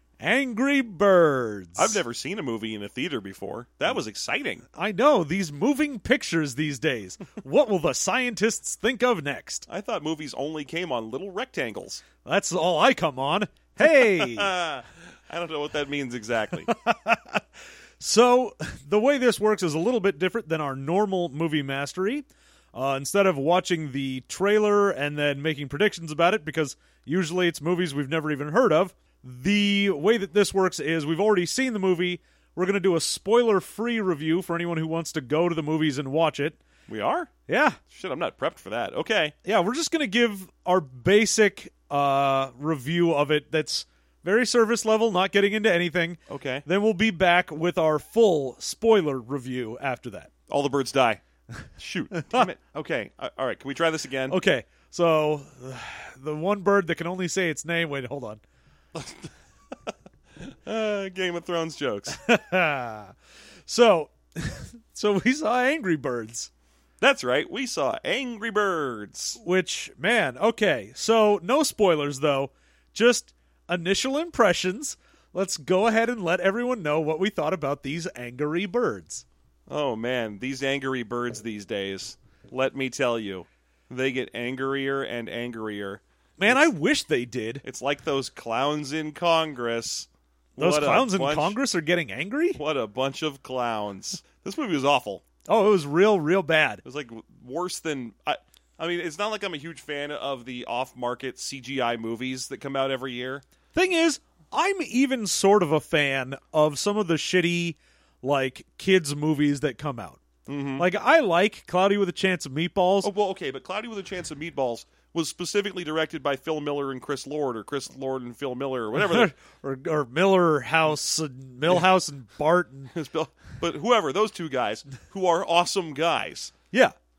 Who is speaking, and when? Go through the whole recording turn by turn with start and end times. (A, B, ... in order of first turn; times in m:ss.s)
0:00.2-0:02.0 A
0:01.8-0:04.6 B
0:04.7-0:09.7 A
0:09.7-0:12.0 B
0:12.2-0:14.5 A
0:13.8-0:16.7 B
0:16.7-0:17.4 A
0:18.0-0:36.6 A
0:36.9-0:37.3 B
0:37.5-0:37.8 A
0:37.9-0:39.3 B
0:39.4-0:50.3 A
0:46.3-0:46.6 B
0:50.5-0:51.2 B
0:51.8-0:54.4 B
0:54.3-0:58.4 A
0:58.9-0:59.3 B
1:00.4-1:02.2 B
1:02.1-1:03.1 A
1:03.7-1:06.5 A
1:07.0-1:09.4 B
1:09.4-1:19.2 A
1:19.7-1:26.6 B
1:26.4-1:27.6 A
1:27.6-1:31.6 B
1:30.6-1:32.6 A
1:32.6-1:35.2 B
1:35.5-1:36.8 A
1:36.8-1:43.4 B
1:43.7-1:50.2 A
1:50.5-1:50.9 B
1:50.8-1:53.1 A
1:53.0-1:59.3 B
1:58.9-2:02.9 A
2:02.9-2:06.5 B